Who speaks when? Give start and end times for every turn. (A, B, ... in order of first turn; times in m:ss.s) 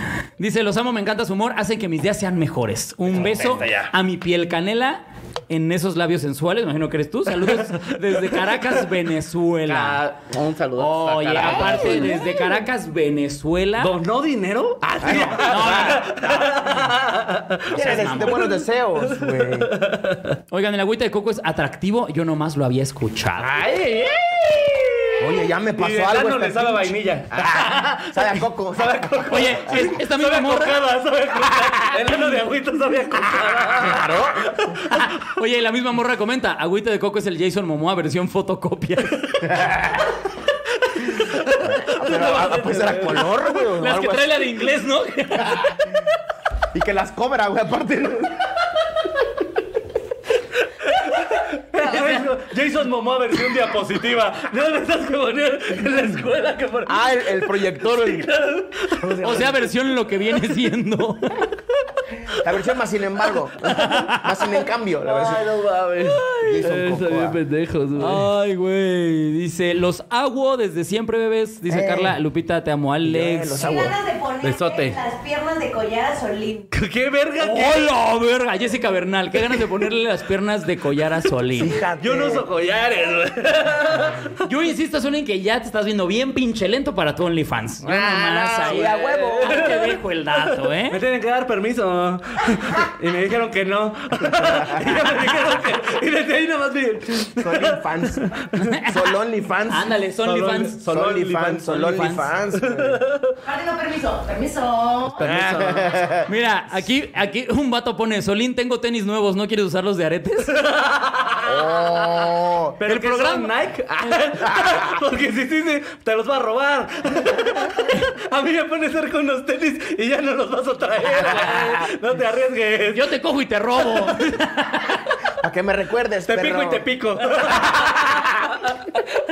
0:00.4-0:10.0 A
0:03.1-0:03.9 B
0:07.4-0:08.8 B
0:09.7-0:12.2 B
0:10.8-0:13.9 A
0:11.3-0:12.6 C
0:13.8-0:20.4 B
0:15.0-0:16.8 C
0:15.3-0:16.1 A
0:17.7-0:18.5 A
0:17.7-0:19.7 C
0:20.5-0:23.6 A
0:23.4-0:25.3 B
0:25.2-0:29.4 C
0:25.8-0:35.0 B
0:29.3-0:30.8 A
0:33.3-0:34.5 C
0:34.9-0:39.4 A
0:39.4-0:40.1 C
0:41.4-0:43.4 B
0:41.6-0:44.4 C
0:41.9-0:42.9 A
0:43.8-0:45.8 A
0:46.7-0:48.5 C
0:50.8-0:59.2 B
0:51.8-0:52.2 A
0:56.9-0:58.3 C
0:59.0-0:59.6 C
0:59.2-1:01.5 A
1:02.3-1:05.5 C
1:03.7-1:04.3 A
1:05.0-1:08.3 B
1:06.4-1:07.4 C
1:08.0-1:13.6 A
1:11.7-1:12.2 C
1:13.0-1:14.0 C
1:13.6-1:16.7 D
1:14.4-1:15.1 B
1:16.7-1:17.9 B
1:17.4-1:21.7 A
1:21.5-1:22.4 C
1:22.0-1:24.4 B
1:24.4-1:31.0 A
1:27.9-1:38.7 B
1:28.5-1:29.8 C
1:34.4-1:34.8 C
1:37.4-1:39.9 C
1:38.6-1:39.2 A
1:39.7-1:40.8 A
1:40.2-1:43.4 B
1:40.8-1:43.0 C
1:41.7-1:42.3 A
1:43.5-1:45.0 D
1:45.0-1:46.1 B
1:45.1-1:46.3 C
1:46.3-1:50.6 A
1:50.5-1:51.8 B
1:51.4-1:52.8 C
1:52.8-2:03.1 B
1:52.8-1:53.5 A
2:02.9-2:05.1 A
2:05.4-2:06.8 C
2:06.3-2:09.0 B